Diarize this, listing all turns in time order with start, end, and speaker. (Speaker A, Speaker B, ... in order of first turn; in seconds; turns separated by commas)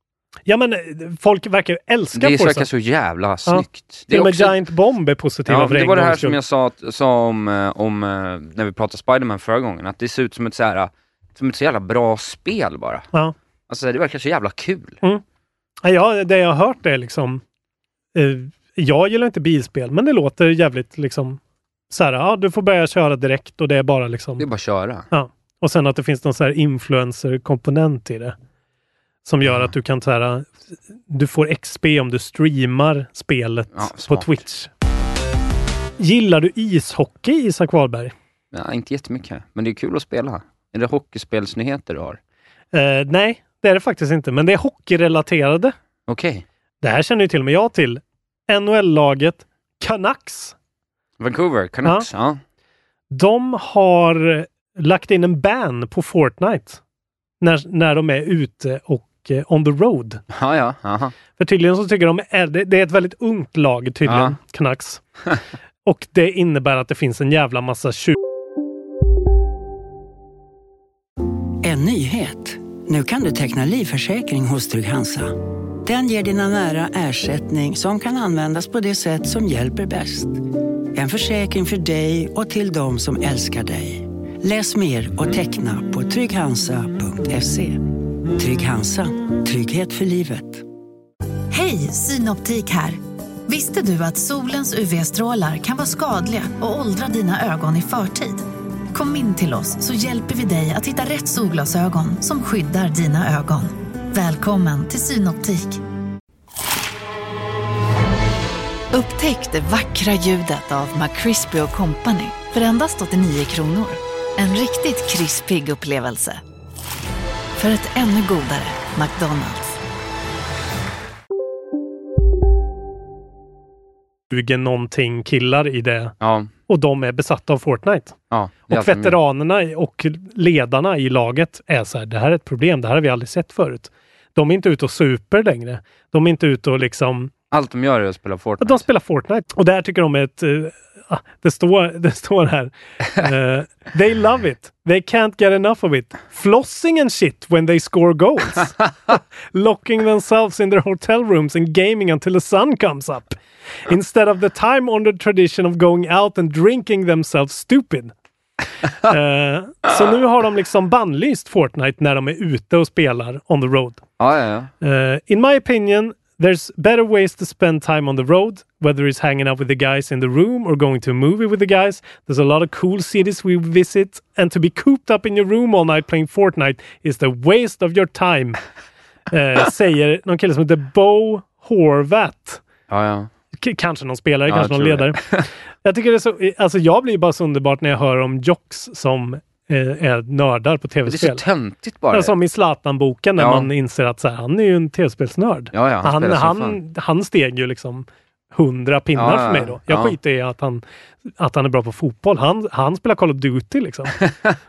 Speaker A: 0.5-2.6, Speaker B: 2.1-4.6, Speaker A: 3.5-6.4, Speaker B: 5.5-13.1, Speaker B: 13.7-15.0, Speaker A: 15.8-17.4, Speaker A: 18.1-24.4, Speaker B: 24.4-25.1, Speaker A: 25.1-28.3, Speaker A: 29.2-30.5, Speaker A: 31.1-34.7, Speaker B: 33.7-34.4, Speaker A: 36.0-38.1, Speaker B: 38.5-42.2, Speaker A: 42.7-45.7, Speaker B: 46.1-46.4, Speaker A: 46.8-50.5, Speaker B: 51.2-52.4, Speaker A: 53.1-56.8, Speaker A: 57.4-60.2, Speaker B: 60.3-61.1, Speaker A: 61.4-65.0, Speaker B: 64.0-64.3, Speaker A: 65.8-68.2, Speaker C: 71.6-80.4, Speaker C: 80.9-90.6, Speaker D: 91.5-105.8, Speaker D: 108.9-116.4, Speaker D: 117.6-119.8, Speaker A: 124.3-126.1, Speaker B: 126.2-126.5, Speaker A: 126.7-128.2, Speaker B: 128.3-129.2, Speaker A: 128.7-137.3, Speaker B: 137.5-138.8, Speaker A: 138.6-158.1, Speaker A: 159.0-164.0, Speaker B: 164.2-164.7, Speaker A: 164.8-178.6, Speaker A: 179.3-182.6, Speaker B: 182.9-183.3, Speaker A: 183.6-185.2, Speaker B: 184.5-185.5, Speaker A: 185.8-191.4, Speaker B: 191.1-192.3, Speaker A: 192.1-200.8, Speaker B: 193.4-193.7, Speaker B: 195.7-196.8, Speaker B: 199.1-200.2, Speaker A: 201.4-204.2